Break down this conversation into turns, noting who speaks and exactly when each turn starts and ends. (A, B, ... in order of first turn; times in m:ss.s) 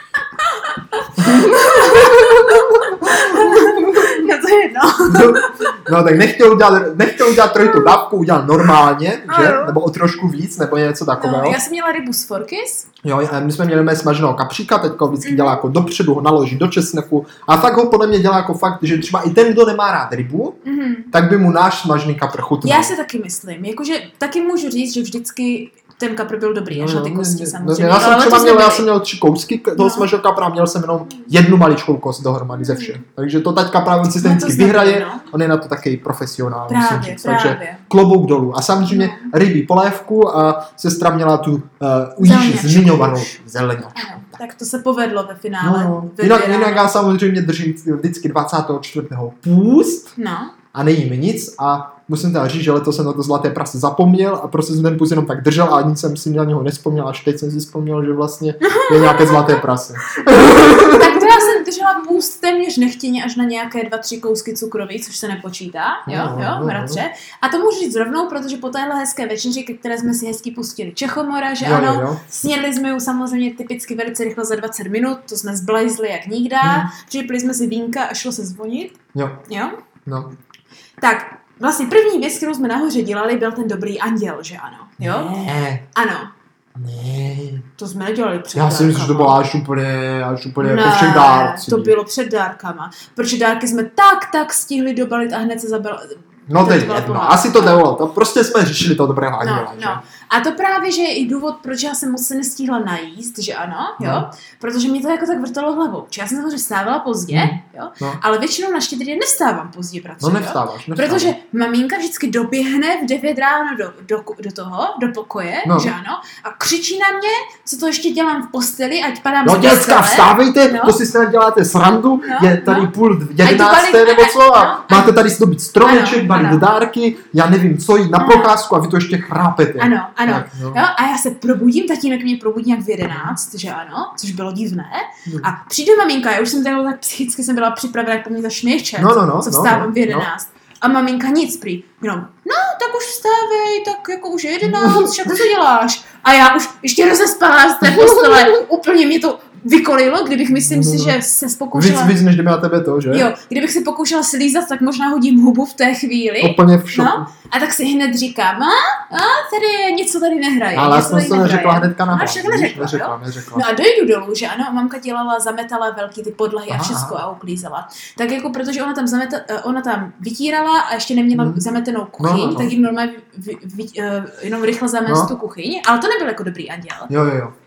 0:00.4-0:05.7 A
0:01.2-0:04.0 B
0:05.1-0:11.6 B
0:07.6-0:08.0 A
0:09.3-0:09.8 A
0:11.2-0:12.9 A
0:13.0-0:20.6 B
0:15.2-0:15.6 A
0:20.6-0:21.1 A
0:21.1-0:22.9 B
0:22.6-0:28.9 A
0:26.7-0:44.3 B
0:29.8-0:30.1 A
0:32.6-0:33.0 A
0:34.2-0:35.3 A
0:36.7-0:37.8 A
0:38.9-0:39.3 A
0:42.2-0:43.3 A
0:43.9-0:46.9 A
0:45.6-0:50.1 B
0:50.2-0:50.5 A
0:50.7-1:01.3 B
0:58.6-0:59.6 A
1:00.8-1:19.8 A
1:06.1-1:07.0 B
1:11.6-1:12.2 B
1:16.6-1:16.9 B
1:19.1-1:19.4 B
1:20.1-1:20.3 B
1:21.0-1:25.3 A
1:25.0-1:25.8 B
1:25.9-1:26.3 A
1:26.8-1:27.7 B
1:27.8-1:29.4 A
1:28.6-1:31.9 B
1:30.6-1:37.8 A
1:36.5-1:40.0 B
1:39.4-2:01.0 A
1:44.0-1:44.3 B
1:47.3-1:48.2 B
1:50.2-1:51.4 B
1:55.6-1:55.9 B
1:59.4-2:10.8 B
2:02.2-2:02.9 A
2:03.4-2:05.1 A
2:05.8-2:06.6 A
2:08.2-2:08.6 A
2:09.8-2:32.2 A
2:13.1-2:13.4 B
2:15.3-2:15.5 B
2:19.0-2:20.3 B
2:24.6-2:25.2 B
2:27.8-2:28.6 B
2:30.6-2:31.2 B
2:31.7-2:33.3 B
2:33.1-2:57.1 A
2:36.4-2:37.3 B
2:40.7-2:43.7 B
2:46.7-2:47.2 B
2:51.4-2:51.6 B
2:52.2-2:52.7 B
2:57.1-2:57.5 B